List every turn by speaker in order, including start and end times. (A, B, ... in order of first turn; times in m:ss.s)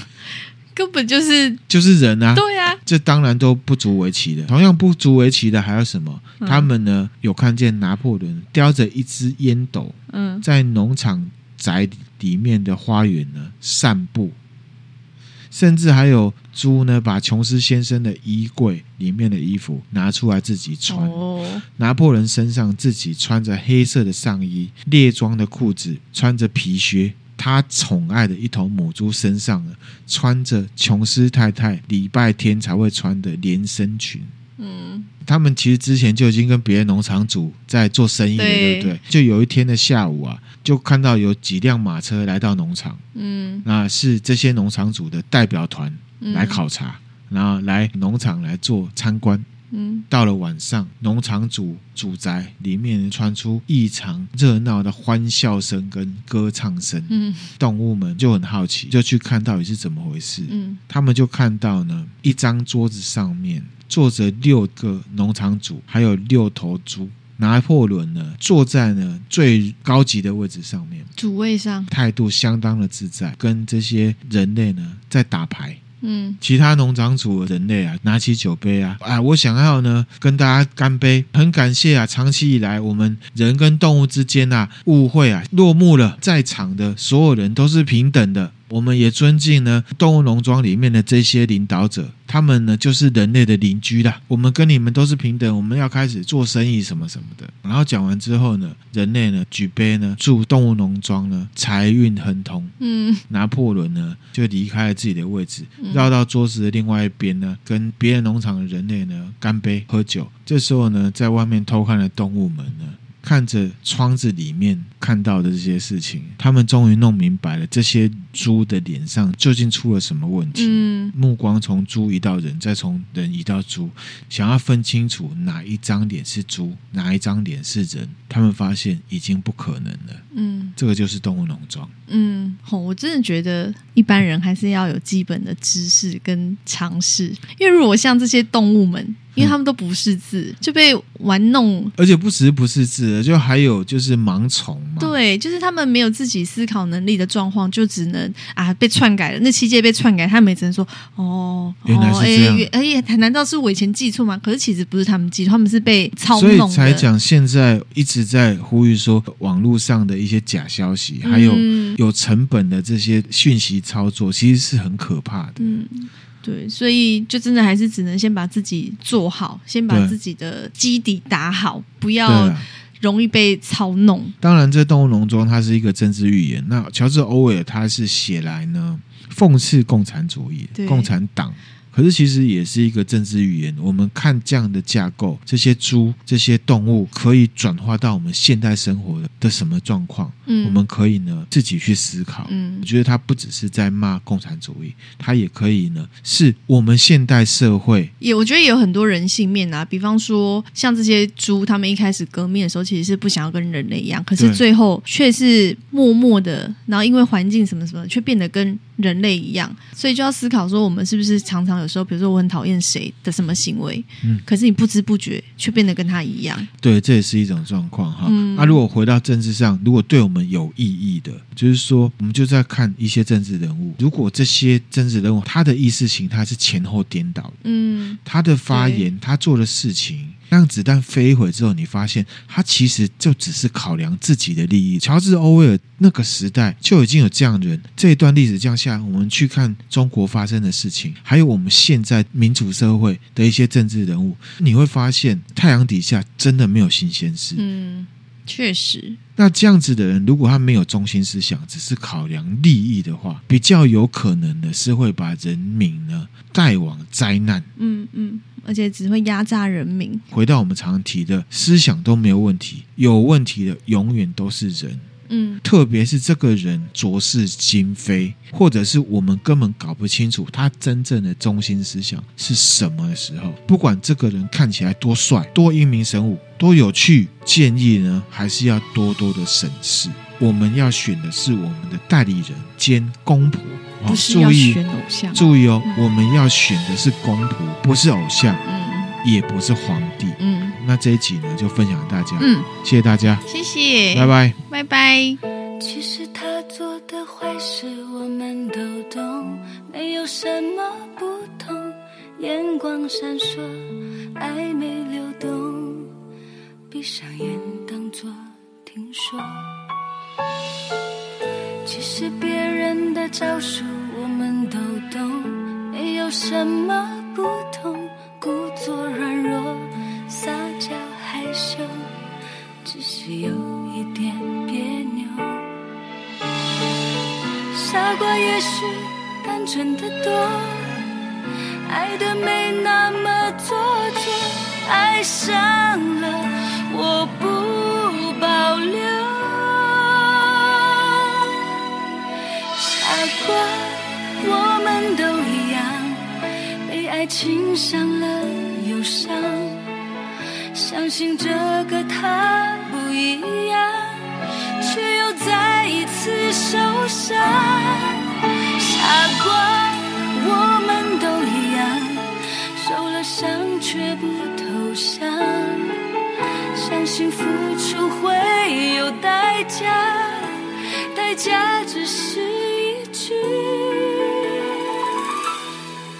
0:00.7-0:01.6 A
0:01.7-0:14.4 B
0:02.3-0:02.8 A
0:06.4-0:06.7 A
0:10.1-0:10.4 A
0:15.5-0:21.2 B
0:20.9-0:21.6 A
0:21.8-0:34.3 B
0:34.6-0:35.1 A
0:35.2-0:43.0 B
0:38.4-0:38.9 A
0:43.1-0:43.6 A
0:43.6-0:49.4 B
0:46.2-0:46.6 A
0:49.7-0:50.1 A
0:50.1-1:11.1 B
0:57.1-0:57.5 A
1:00.5-1:00.8 A
1:11.2-1:11.9 A
1:11.9-1:15.8 B
1:16.0-1:16.4 A
1:16.4-1:42.7 B
1:42.8-1:43.2 A
1:43.3-2:10.2 B
1:45.8-1:46.1 A
2:00.5-2:01.1 A
2:10.3-2:10.8 A
2:10.8-2:11.9 B
2:12.1-2:21.9 A
2:22.0-2:25.1 B
2:25.0-2:37.1 A
2:31.8-2:32.7 B
2:36.3-2:45.8 B
2:41.2-2:42.0 A
2:45.6-2:54.3 A
2:49.9-2:50.2 B
2:52.2-2:52.7 B
2:54.4-3:18.1 B
3:00.7-3:01.1 A
3:10.5-3:10.8 A
3:12.5-3:12.9 A
3:18.2-3:36.7 A
3:24.4-3:24.6 B
3:36.8-3:47.6 B
3:38.2-3:38.8 A
3:47.6-3:49.1 A
3:48.2-4:07.6 B
4:07.6-4:09.2 A
4:09.4-4:17.7 B
4:17.8-4:20.2 A
4:20.3-4:25.0 B
4:25.3-4:25.6 A
4:25.6-4:44.8 B
4:44.0-4:46.0 A
4:45.3-4:48.6 B
4:48.6-4:49.2 A
4:49.2-4:53.4 B
4:50.4-4:50.8 A
4:52.4-4:52.7 A
4:53.4-4:55.4 A
4:54.1-4:54.6 B
4:55.8-5:06.1 C
5:06.9-5:09.7 C
5:11.8-5:22.1 C
5:22.8-5:25.7 C
5:27.7-5:31.0 C
5:31.8-5:41.5 C
5:42.7-5:49.8 C
5:50.7-6:06.0 C
6:06.7-6:15.0 C